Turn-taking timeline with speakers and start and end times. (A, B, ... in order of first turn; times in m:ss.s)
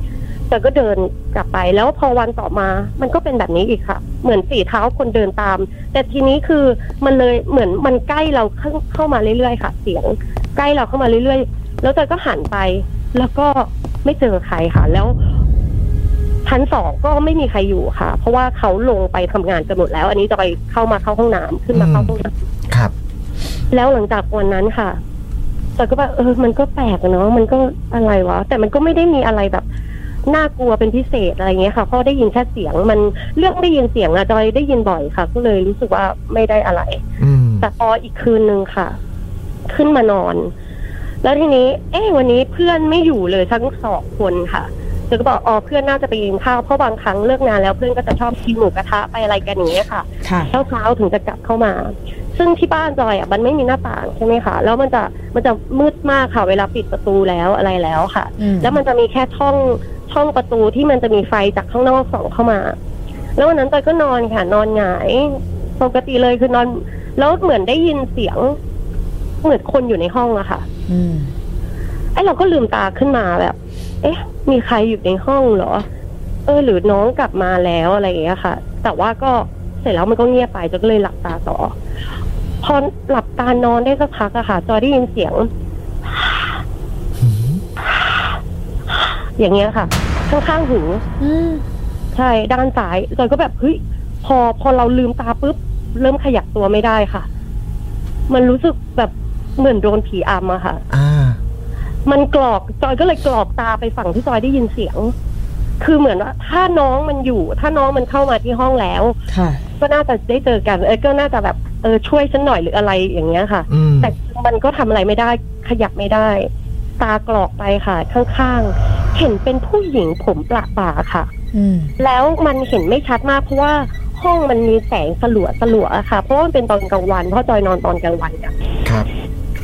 0:00.5-0:15.2 A
0:16.4-0:22.3 A
0:21.7-0:22.1 B
0:23.7-0:25.0 A
0:25.8-0:29.6 A
0:30.3-0:37.0 A
0:37.2-0:37.7 B
0:37.6-0:39.0 A
0:39.7-0:40.5 A
0:41.2-1:02.8 A
0:50.2-0:50.5 C
0:58.4-0:58.8 C
1:03.4-1:08.6 A
1:09.4-1:10.6 A
1:10.9-1:11.3 C
1:12.1-1:15.8 A
1:16.5-1:21.7 A
1:22.6-1:25.5 A
1:27.2-1:27.6 B
1:29.4-1:31.0 A
1:31.2-1:31.6 C
1:32.1-1:37.3 A
1:38.3-1:40.8 A
1:40.9-1:41.4 B
1:42.1-1:45.1 A
1:45.8-1:49.2 A
1:49.3-1:49.6 C
1:49.8-2:01.3 A
1:53.7-1:54.1 B
2:01.5-2:01.9 C
2:02.0-2:08.5 A